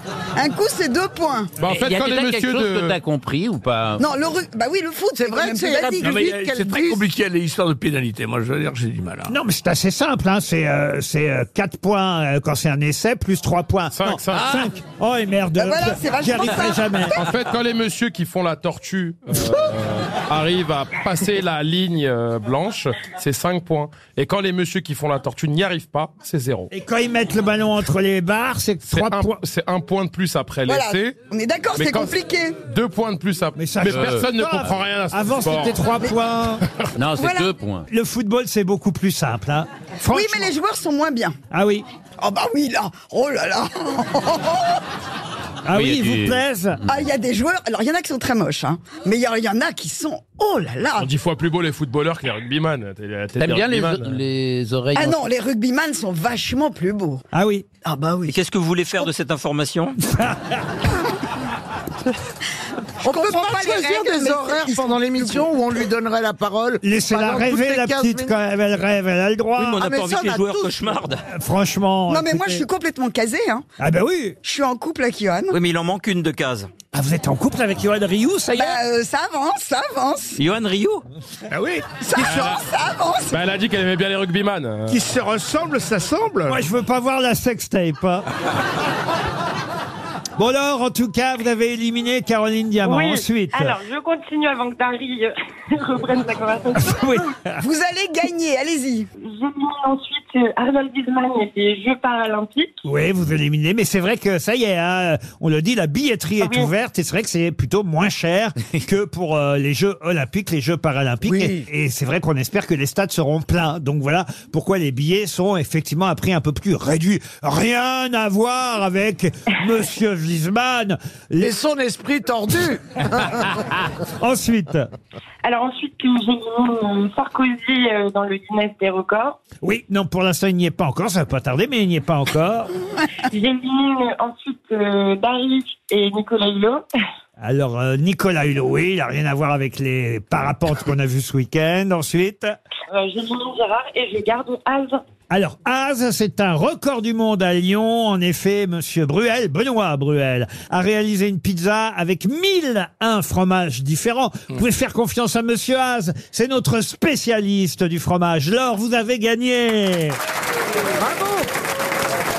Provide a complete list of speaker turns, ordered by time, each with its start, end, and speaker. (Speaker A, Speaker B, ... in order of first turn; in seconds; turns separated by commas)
Speaker A: 0.3-1.5, Speaker B: 1.6-2.9, Speaker C: 1.6-4.0, Speaker A: 4.0-6.3, Speaker D: 5.2-7.1, Speaker E: 6.0-9.3, Speaker F: 9.3-17.2, Speaker B: 13.9-14.6, Speaker A: 15.6-17.0, Speaker B: 17.1-26.7, Speaker F: 26.7-29.4, Speaker B: 28.9-31.2, Speaker A: 30.6-32.6, Speaker B: 31.7-32.1, Speaker B: 32.7-35.8, Speaker F: 33.5-36.6, Speaker C: 33.8-34.8, Speaker C: 37.0-37.9, Speaker A: 37.1-37.5, Speaker F: 37.9-40.5, Speaker A: 40.1-41.3, Speaker F: 41.5-41.8, Speaker A: 42.2-44.8, Speaker F: 45.6-46.8, Speaker C: 45.7-46.4, Speaker A: 46.9-51.1, Speaker B: 51.0-54.2, Speaker C: 53.4-55.3, Speaker A: 54.9-57.2, Speaker F: 57.3-57.6, Speaker A: 57.8-59.1, Speaker G: 58.2-60.0, Speaker F: 60.1-60.5, Speaker A: 63.0-65.5, Speaker D: 63.0-68.3, Speaker F: 66.8-69.8, Speaker G: 69.6-71.2, Speaker D: 69.7-71.0, Speaker F: 71.3-72.6, Speaker A: 72.1-73.6, Speaker F: 73.8-74.4, Speaker A: 74.4-75.6, Speaker G: 75.5-76.7, Speaker F: 76.9-78.8, Speaker A: 78.6-80.4, Speaker G: 80.3-81.0, Speaker E: 81.5-82.5, Speaker A: 82.0-83.4, Speaker B: 82.2-82.6, Speaker B: 83.3-85.0, Speaker E: 84.9-86.6, Speaker F: 86.5-88.3, Speaker F: 90.4-93.8, Speaker H: 92.8-97.1, Speaker F: 96.8-97.6, Speaker A: 97.6-99.1, Speaker H: 99.2-102.7, Speaker F: 102.8-121.5, Speaker H: 106.4-106.7, Speaker D: 111.2-111.6, Speaker D: 121.4-123.5, Speaker F: 124.2-124.9, Speaker H: 125.4-129.4, Speaker F: 129.6-132.7, Speaker H: 133.3-136.8, Speaker F: 137.4-142.5, Speaker H: 142.9-145.0, Speaker F: 145.3-160.2, Speaker E: 161.0-161.4